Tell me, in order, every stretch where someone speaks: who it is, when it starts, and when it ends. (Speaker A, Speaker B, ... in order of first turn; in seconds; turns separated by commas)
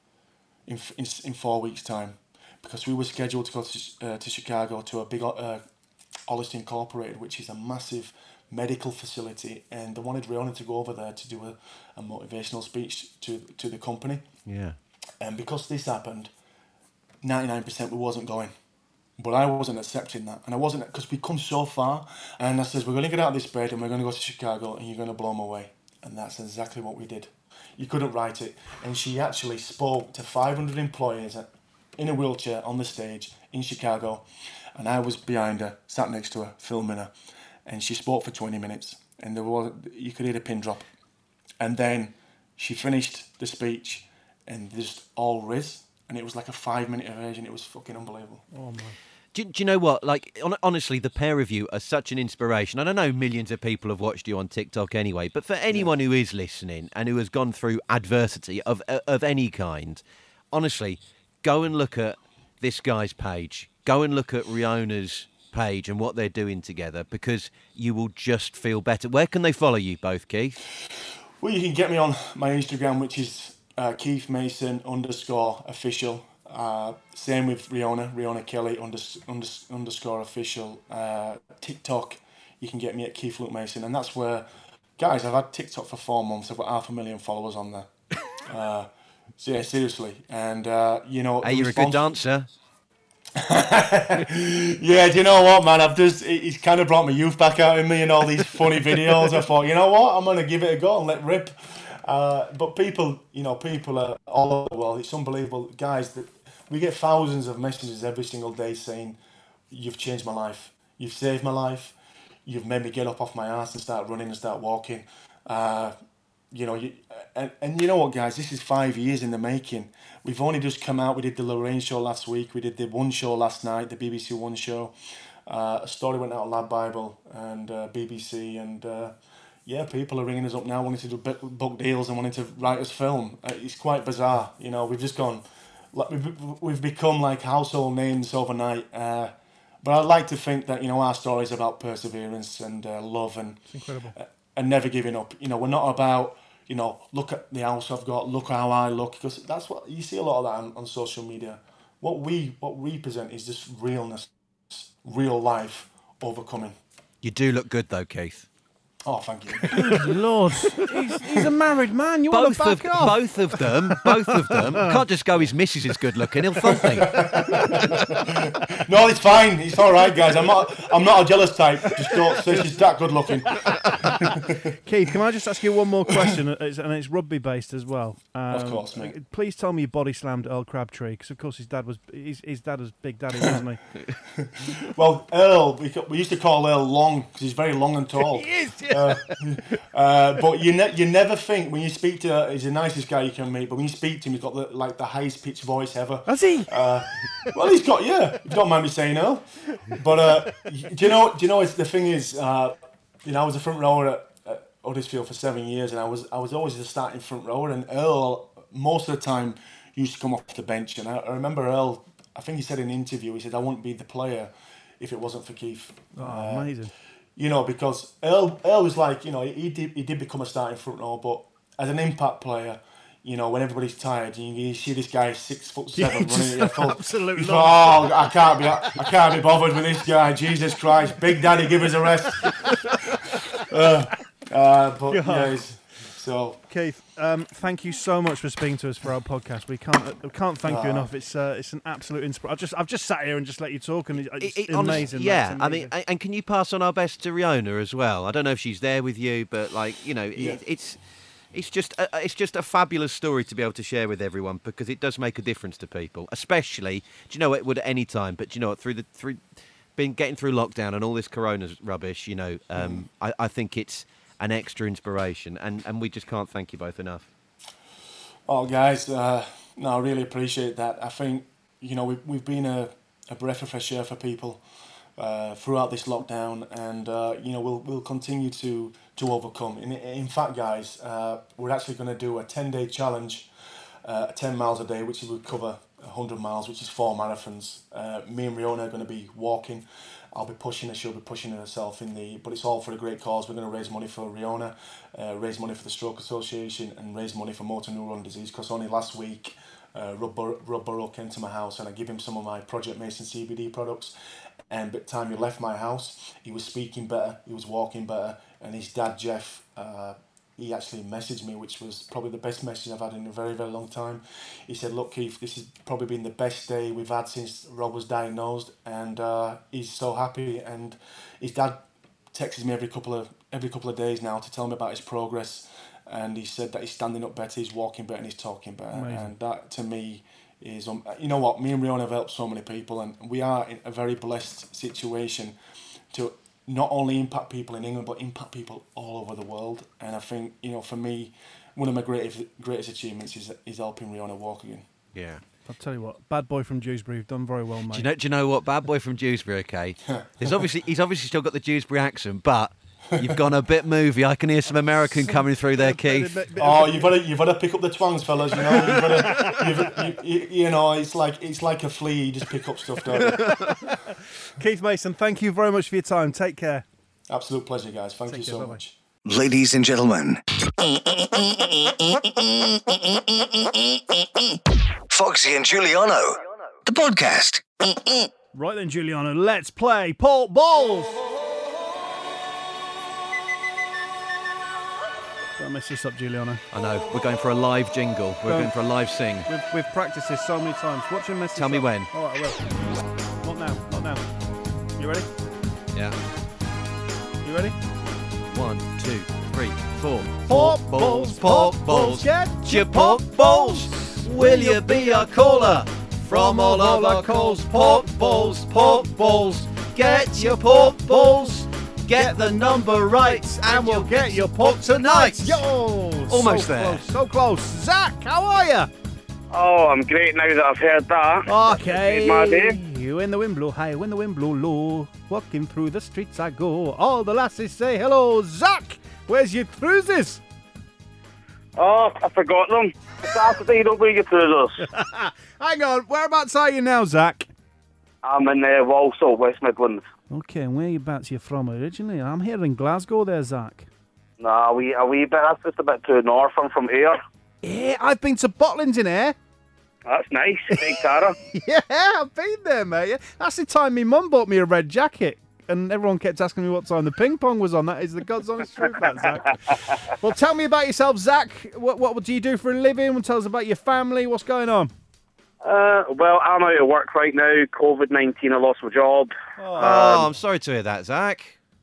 Speaker A: 0.7-5.6, Speaker A: 6.3-14.3, Speaker B: 14.5-14.8, Speaker A: 15.2-16.3, Speaker A: 17.2-18.5, Speaker A: 19.2-37.1, Speaker A: 37.6-40.9, Speaker A: 41.6-48.4, Speaker C: 48.5-49.0, Speaker B: 49.3-70.6, Speaker A: 71.4-84.5, Speaker A: 85.0-92.1, Speaker B: 91.4-92.5, Speaker A: 93.3-109.2, Speaker A: 109.7-116.0, Speaker A: 116.5-124.9, Speaker A: 125.5-129.1, Speaker A: 129.7-156.8, Speaker C: 143.7-144.2, Speaker B: 157.2-158.5, Speaker A: 159.0-160.1, Speaker C: 159.7-165.0, Speaker B: 162.3-167.3, Speaker A: 166.8-174.7, Speaker C: 167.2-167.8, Speaker C: 174.8-183.8, Speaker A: 178.5-179.1, Speaker A: 184.4-216.8, Speaker C: 188.3-189.3, Speaker C: 196.3-196.7, Speaker C: 216.2-216.9, Speaker A: 217.3-232.8, Speaker C: 225.9-229.1, Speaker C: 232.4-233.6, Speaker A: 233.6-236.6, Speaker C: 235.1-235.7, Speaker C: 236.7-245.9, Speaker A: 240.6-241.1, Speaker B: 244.4-259.4, Speaker B: 259.9-267.3, Speaker A: 262.8-263.1, Speaker A: 268.5-274.6, Speaker A: 275.2-283.5, Speaker A: 284.0-304.1, Speaker A: 304.7-335.6, Speaker C: 328.9-329.3, Speaker A: 336.1-344.9, Speaker B: 345.1-345.4, Speaker C: 345.6-348.1, Speaker B: 347.9-356.4, Speaker A: 350.2-350.6, Speaker C: 355.1-357.1, Speaker A: 356.5-363.6, Speaker C: 358.7-360.0, Speaker C: 363.1-366.8, Speaker A: 367.3-369.0, Speaker C: 368.3-368.8, Speaker D: 369.2-374.6, Speaker D: 375.1-378.3, Speaker C: 378.5-381.2, Speaker C: 385.6-386.6, Speaker B: 386.7-389.5, Speaker C: 388.4-388.7, Speaker C: 389.4-395.3, Speaker B: 391.5-392.1, Speaker B: 395.9-396.2, Speaker C: 397.4-397.8, Speaker B: 398.5-415.6, Speaker C: 400.4-405.3, Speaker C: 406.2-411.6, Speaker C: 412.1-418.9, Speaker B: 416.3-417.0, Speaker E: 419.5-422.8, Speaker C: 421.5-430.4, Speaker E: 431.8-434.7, Speaker C: 434.8-437.5, Speaker E: 438.2-440.0, Speaker C: 440.3-443.9, Speaker E: 444.4-447.2, Speaker C: 447.6-449.4, Speaker E: 450.1-451.4, Speaker C: 450.7-464.9, Speaker E: 465.6-470.2, Speaker C: 469.6-470.2, Speaker B: 469.8-471.6